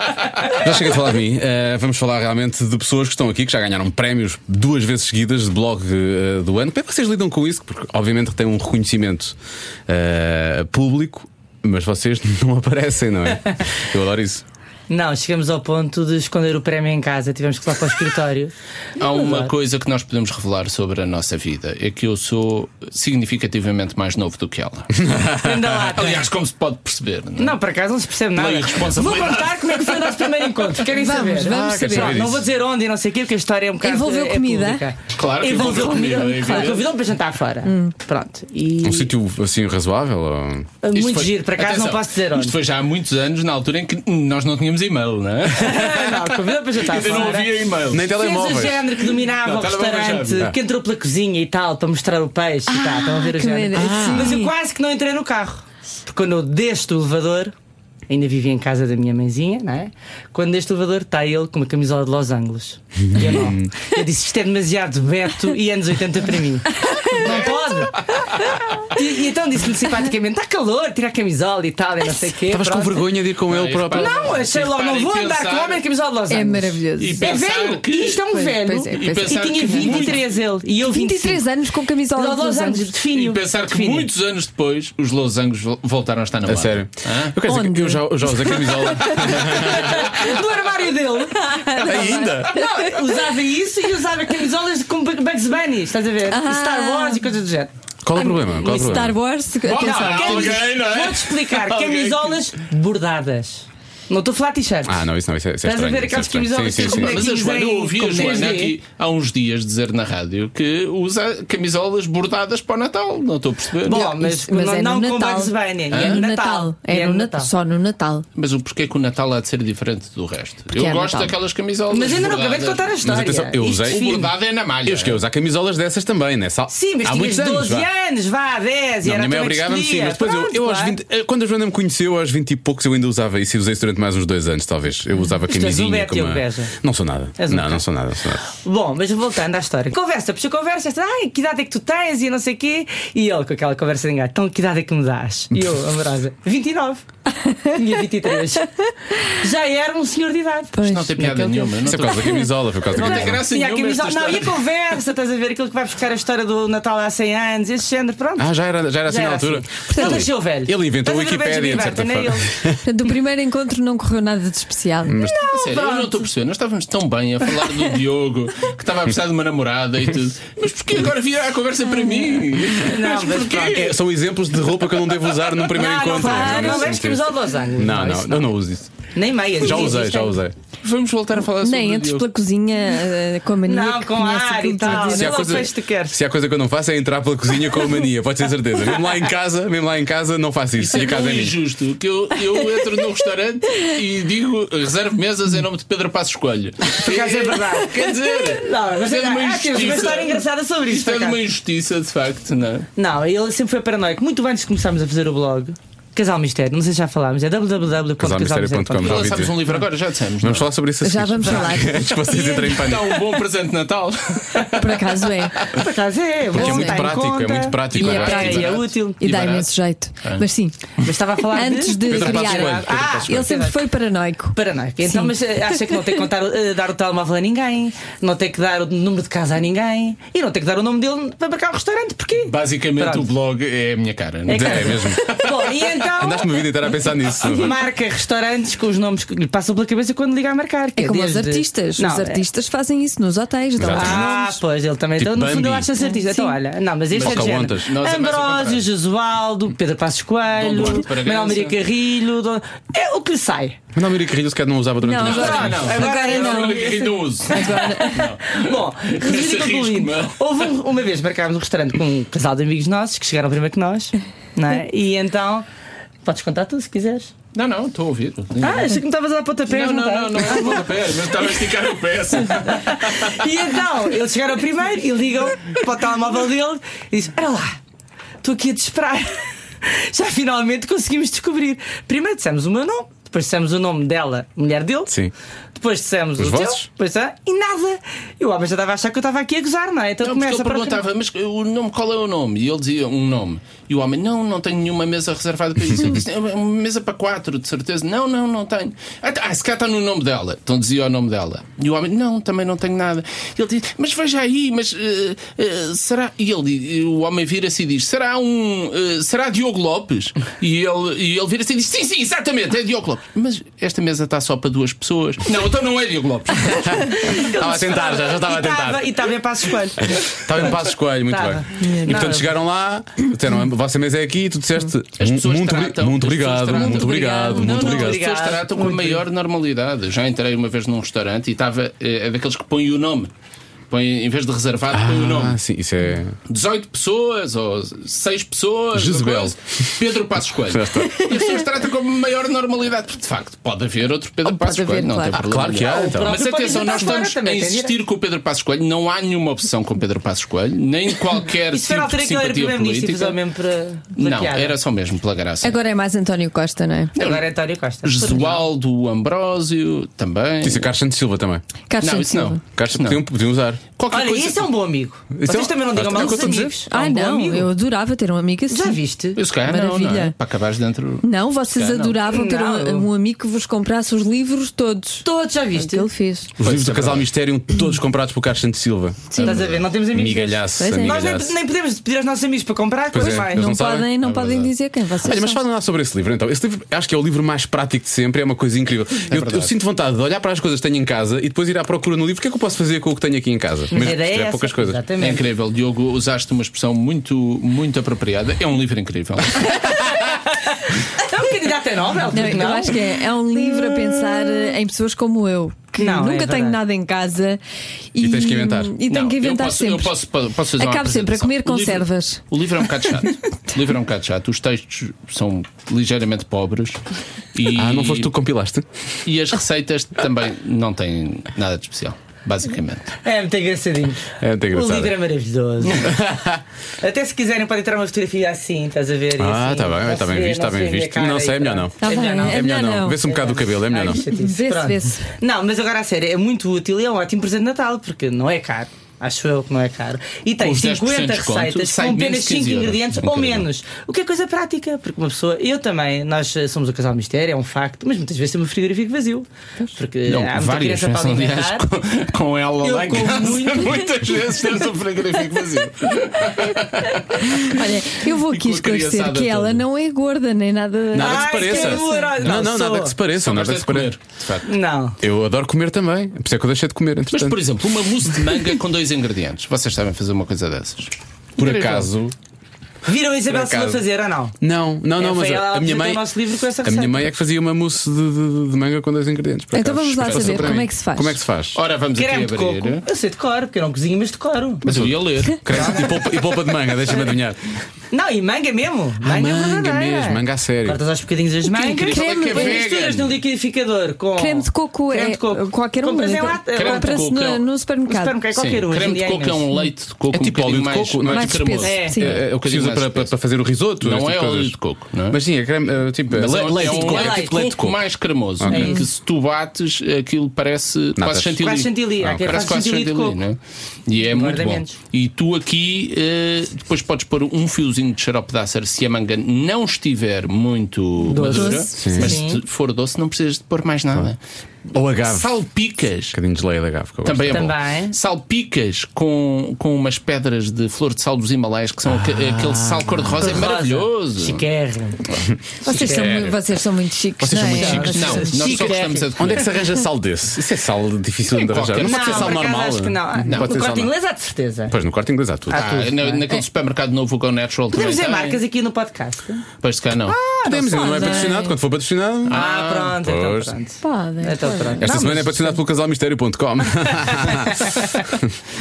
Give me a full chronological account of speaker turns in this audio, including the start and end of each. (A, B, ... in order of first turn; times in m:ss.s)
0:00.5-0:09.4 A
0:09.9-0:14.4 A
0:14.9-0:19.5 B
0:19.0-0:25.1 C
0:25.0-0:25.8 A
0:25.4-0:26.3 B
0:25.9-0:27.6 C
0:27.4-0:39.1 B
0:28.4-0:30.7 C
0:31.0-0:32.2 D
0:31.4-0:32.5 A
0:33.8-0:34.9 D
0:35.1-0:36.9 C
0:36.0-0:36.7 D
0:37.6-0:37.9 D
0:38.8-0:40.7 A
0:40.8-0:42.6 B
0:40.9-0:50.5 C
0:45.6-0:57.5 B
0:47.9-0:48.9 A
0:52.7-0:54.5 D
0:53.8-0:54.4 A
0:58.1-1:13.1 B
1:03.1-1:03.7 A
1:06.8-1:07.2 D
1:07.2-1:08.8 C
1:12.5-1:14.3 A
1:13.5-1:15.8 C
1:13.9-1:21.5 B
1:16.3-1:17.3 D
1:17.0-1:18.2 C
1:18.2-1:20.2 D
1:18.9-1:20.2 C
1:20.8-1:22.9 D
1:22.1-1:24.1 B
1:23.1-1:27.4 C
1:26.4-1:30.2 A
1:27.4-1:29.2 D
1:29.0-1:30.4 C
1:29.4-1:37.7 B
1:31.4-1:33.0 D
1:31.8-1:32.6 A
1:36.3-1:37.2 D
1:38.0-1:39.2 A
1:38.2-1:40.6 D
1:38.2-1:38.8 B
1:39.6-1:42.4 C
1:39.7-1:45.0 B
1:44.9-1:47.3 A
1:45.6-1:48.8 B
1:46.8-1:54.1 C
1:53.9-1:57.5 B
1:53.9-1:58.3 D
1:55.9-1:56.2 C
1:58.4-2:03.0 C
2:00.7-2:01.4 D
2:01.9-2:04.3 B
2:03.0-2:07.9 A
2:03.8-2:05.2 C
2:06.7-2:11.0 B
2:09.0-2:18.5 A
2:15.5-2:16.8 B
2:17.4-2:17.8 B
2:18.5-2:27.1 B
2:27.4-2:27.8 D
2:27.6-2:28.7 B
2:29.3-2:30.8 B
2:30.7-2:32.5 D
2:30.8-2:34.6 C
2:31.8-2:33.4 A
2:32.9-2:38.5 B
2:38.4-2:42.8 A
2:39.0-2:42.5 B
2:39.9-2:40.2 D
2:42.8-2:45.2 D
2:45.0-2:45.4 A
2:45.2-2:46.3 B
2:45.4-2:53.9 C
2:52.0-2:52.4 D
2:52.8-2:53.9 B
2:53.7-2:58.9 A
2:55.7-2:58.6 B
2:56.1-2:56.9 D
2:59.2-3:00.4 B
2:59.6-3:00.6 A
3:00.8-3:02.3 C
3:01.6-3:05.6 D
3:03.7-3:06.2 B
3:04.9-3:11.6 A
3:10.8-3:22.9 C
3:16.9-3:21.4 B
3:23.0-3:29.5 B
3:28.2-3:29.8 A
3:29.0-3:30.7 C
3:30.4-3:33.2 A
3:31.0-3:32.9 D
3:31.4-3:31.8 C
3:32.3-3:35.8 C
3:34.8-3:35.7 D
3:35.7-3:39.2 B
3:36.5-3:38.7 A
3:36.6-3:37.0 D
3:37.9-3:39.7 C
3:38.0-3:38.6 D
3:39.2-3:40.8 D
3:41.0-3:43.9 B
3:41.5-3:46.0 D
3:42.1-3:43.5 A
3:44.6-3:53.3 B
3:52.5-3:55.9 C
3:54.5-4:02.4 B
3:54.5-3:55.4 A
3:56.2-3:57.8 A
4:01.0-4:04.6 D
4:03.8-4:04.3 A
4:03.8-4:13.8 B
4:05.2-4:05.9 A
4:06.0-4:06.6 D
4:07.1-4:08.8 C
4:07.2-4:07.9 A
4:10.6-4:11.8 C
4:13.9-4:15.9 A
4:15.0-4:18.2 D
4:15.2-4:20.4 C
4:15.2-4:25.7 B
4:26.2-4:27.3 B
4:27.5-4:29.0 C
4:28.6-4:31.1 B
4:29.7-4:33.4 C
4:32.6-4:37.8 B
4:38.4-4:45.2 B
4:45.8-4:51.0 B
4:46.4-4:46.9 A
4:50.2-5:17.3 C
5:17.0-5:19.1 A
5:17.2-5:22.5 B
5:20.0-5:28.3 A
5:21.8-5:22.1 D
5:25.2-5:33.3 C
5:26.7-5:29.2 B
5:27.2-5:27.5 D
5:33.9-5:35.6 C
5:34.9-5:36.4 A
5:36.5-5:53.4 C
5:38.9-5:39.9 A
5:40.6-5:41.3 A
5:44.4-5:45.4 D
5:45.3-5:46.4 A
5:45.7-5:48.0 B
5:51.7-5:54.8 B
5:54.2-5:55.8 C
5:55.6-5:57.2 D
5:57.2-5:57.5 C
5:57.2-5:58.6 B
5:58.0-6:00.9 C
6:00.6-6:01.6 A
6:01.9-6:02.6 D
6:02.0-6:03.2 C
6:02.7-6:03.8 A
6:04.0-6:04.7 C
6:04.1-6:07.7 B
6:05.3-6:06.7 A
6:06.1-6:09.0 D
6:08.7-6:09.4 B
6:09.4-6:12.2 C
6:09.6-6:10.4 D
6:11.2-6:16.5 D
6:12.3-6:13.1 B
6:15.2-6:16.1 B
6:16.6-6:21.5 A
6:16.6-6:17.3 C
6:19.4-6:23.8 B
6:20.8-6:21.2 D
6:23.1-6:24.3 A
6:23.2-6:25.6 D
6:24.2-6:24.7 C
6:25.2-6:35.0 A
6:29.3-6:29.7 C
6:33.9-6:35.4 B
6:35.2-6:40.2 C
6:40.2-6:40.6 B
6:41.1-6:43.1 B
6:42.3-6:47.6 D
6:46.0-6:46.8 B
6:48.1-6:50.2 D
6:48.2-6:49.0 A
6:49.1-6:57.0 C
6:50.8-6:52.4 D
6:57.5-6:58.3 C
6:57.7-6:58.9 A
6:59.2-7:03.1 C
7:03.2-7:06.1 B
7:04.4-7:05.2 A
7:06.0-7:06.6 A
7:07.0-7:31.9 B
7:09.4-7:14.2 A
7:12.0-7:13.2 D
7:14.3-7:15.3 D
7:20.6-7:23.7 C
7:30.2-7:37.8 C
7:32.8-7:34.4 B
7:37.3-7:42.3 D
7:38.4-7:39.8 C
7:41.1-7:44.1 A
7:41.2-7:43.2 B
7:43.4-7:44.7 C
7:44.7-7:45.2 B
7:45.2-7:47.6 A
7:47.3-7:52.1 C
7:51.6-7:52.4 A
7:53.0-7:54.6 B
7:53.5-7:54.0 A
7:54.6-7:56.2 A
7:55.2-7:57.3 B
7:56.8-8:01.8 A
7:59.7-8:01.4 D
8:00.2-8:00.8 C
8:01.8-8:03.0 C
8:02.2-8:04.8 B
8:04.8-8:06.2 C
8:04.9-8:07.6 A
8:05.7-8:06.3 B
8:08.1-8:17.3 B
8:09.2-8:11.0 A
8:11.7-8:13.4 C
8:12.1-8:12.9 D
8:14.4-8:18.4 D
8:16.7-8:17.6 C
8:18.1-8:19.7 B
8:18.6-8:23.3 C
8:20.3-8:24.8 A
8:21.3-8:22.4 D
8:21.8-8:22.2 B
8:24.0-8:25.4 C
8:25.3-8:28.0 A
8:26.3-8:44.4 C
8:26.6-8:27.7 B
8:28.6-8:29.0 A
8:28.7-8:29.0 B
8:28.7-8:29.0 D
8:31.2-8:31.6 A
8:31.6-8:33.4 B
8:32.2-8:32.6 A
8:34.2-8:35.0 B
8:41.2-8:42.6 B
8:41.4-8:42.2 D
8:42.0-8:42.4 A
8:44.9-8:45.5 A
8:45.2-8:46.4 C
8:46.3-8:47.7 A
8:47.2-8:54.6 C
8:47.5-8:48.2 B
8:52.1-8:53.6 A
8:53.4-8:55.2 B
8:55.8-8:58.8 D
8:55.9-8:56.4 B
8:55.9-8:56.6 C
8:57.4-8:58.4 A
8:57.6-8:59.7 B
8:57.8-8:59.8 C
8:59.4-9:04.1 A
9:01.5-9:02.7 C
9:02.0-9:05.0 B
9:03.5-9:03.8 C
9:04.9-9:05.9 A
9:05.7-9:06.6 B
9:05.7-9:08.6 C
9:07.9-9:09.7 B
9:09.8-9:10.4 C
9:10.3-9:11.6 B
9:10.6-9:13.7 A
9:10.8-9:11.8 D
9:12.5-9:13.2 C
9:12.5-9:15.8 B
9:14.0-9:15.1 D
9:15.0-9:18.5 A
9:17.0-9:17.7 B